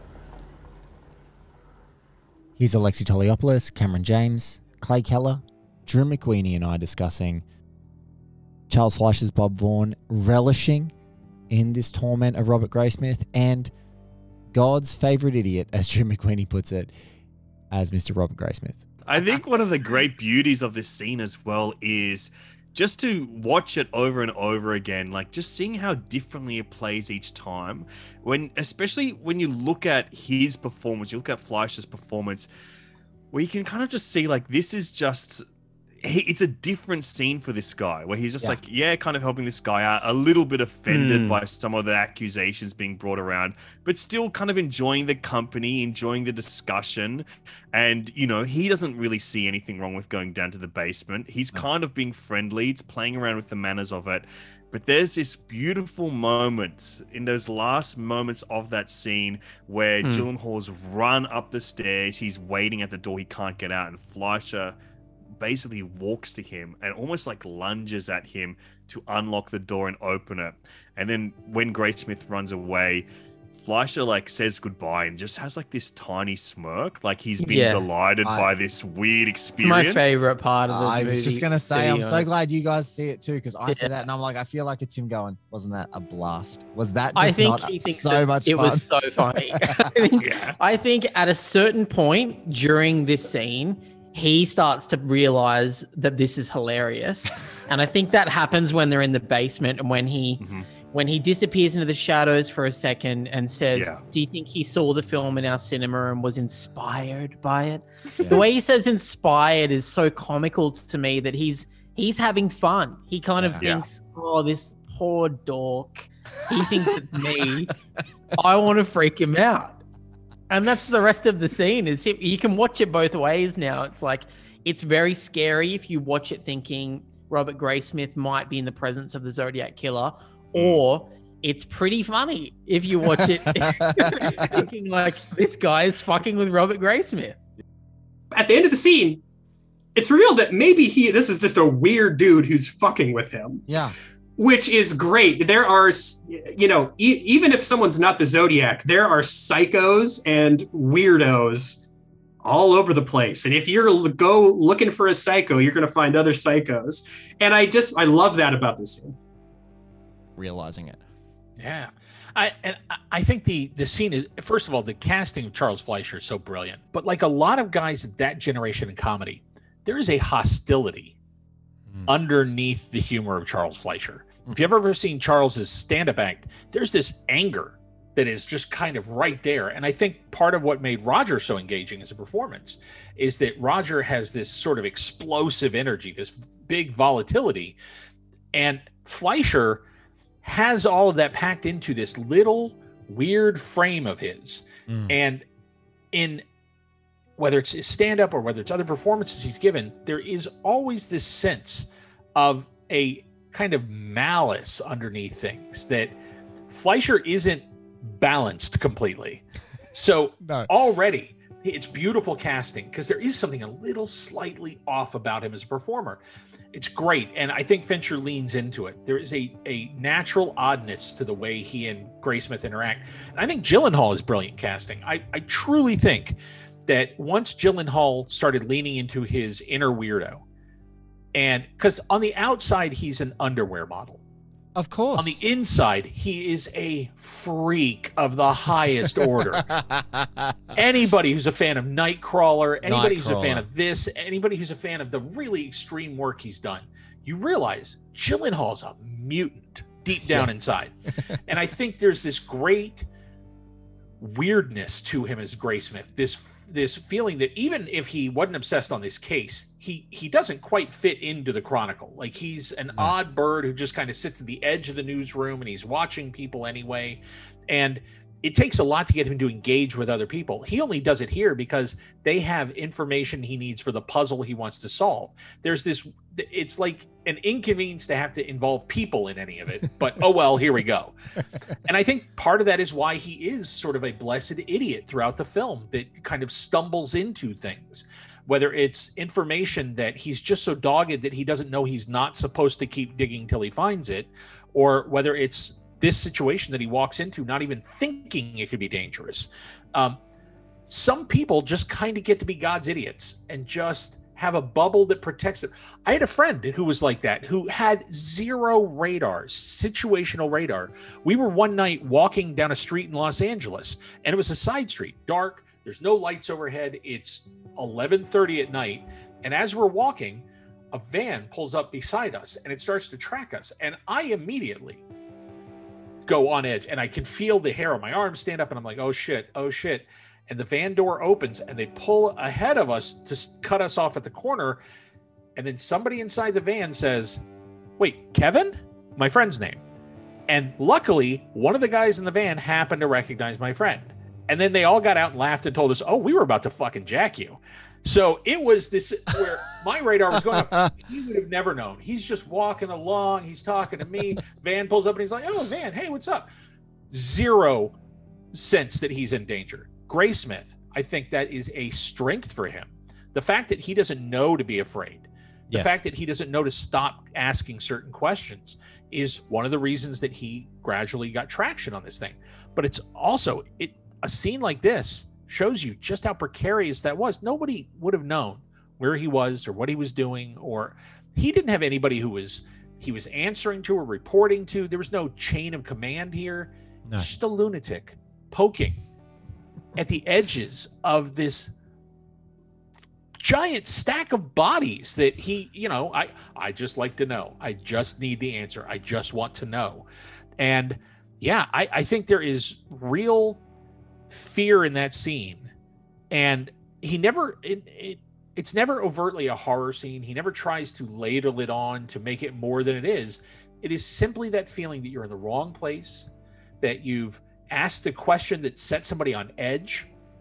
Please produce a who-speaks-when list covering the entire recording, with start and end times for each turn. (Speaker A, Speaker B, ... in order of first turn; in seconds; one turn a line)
Speaker A: 2.6-7.4
Speaker A: 8.7-10.9
Speaker A: 11.5-13.7
Speaker A: 14.5-16.9
Speaker A: 17.7-18.9
Speaker B: 19.1-32.5
Speaker B: 33.3-35.4
Speaker B: 36.0-64.8
Speaker C: 40.9-41.4
Speaker B: 65.4-80.3
Speaker C: 77.4-77.9
Speaker C: 79.6-82.4
Speaker A: 80.7-88.8
Speaker C: 87.2-100.4
Speaker B: 90.2-90.6
Speaker B: 100.4-100.7
Speaker C: 100.9-117.7
Speaker B: 103.8-104.0
Speaker A: 113.4-113.6
Speaker B: 113.6-113.9
Speaker C: 118.4-119.8
Speaker C: 120.5-137.4
Speaker B: 130.6-130.8
Speaker A: 133.7-134.1
Speaker D: 138.3-139.2
Speaker D: 139.9-143.7
Speaker A: 143.7-144.0
Speaker D: 144.4-151.8
Speaker D: 152.4-159.2
Speaker A: 160.4-161.0
Speaker E: 161.6-171.2
Speaker E: 172.1-187.8
Speaker E: 188.5-189.8
Speaker E: 190.4-195.4
Speaker A: 194.9-195.2
Speaker E: 196.1-196.4
Speaker E: 197.4-206.2
Speaker E: 206.7-216.2
Speaker A: 210.4-210.7
Speaker E: 216.7-230.4
Speaker E: 231.3-234.2
Speaker A: 234.8-235.4
Speaker E: 235.2-239.7
Speaker A: 239.6-240.6
Speaker E: 240.7-250.9
Speaker A: 242.8-243.7
Speaker A: 250.2-250.6
Speaker E: 251.5-253.1
Speaker E: 254.2-281.1
Speaker E: 281.9-300.2
Speaker E: 300.9-325.0
Speaker E: 326.3-334.8
Speaker E: 335.6-337.4
Speaker E: 338.0-339.8
Speaker E: 340.5-356.5
Speaker A: 350.5-350.9
Speaker E: 357.1-357.9
Speaker E: 358.5-389.0
Speaker A: 365.7-366.0
Speaker E: 390.0-391.7
Speaker E: 393.4-400.1
Speaker E: 400.6-403.6
Speaker E: 404.3-405.7
Speaker E: 406.3-416.3
Speaker E: 416.8-420.1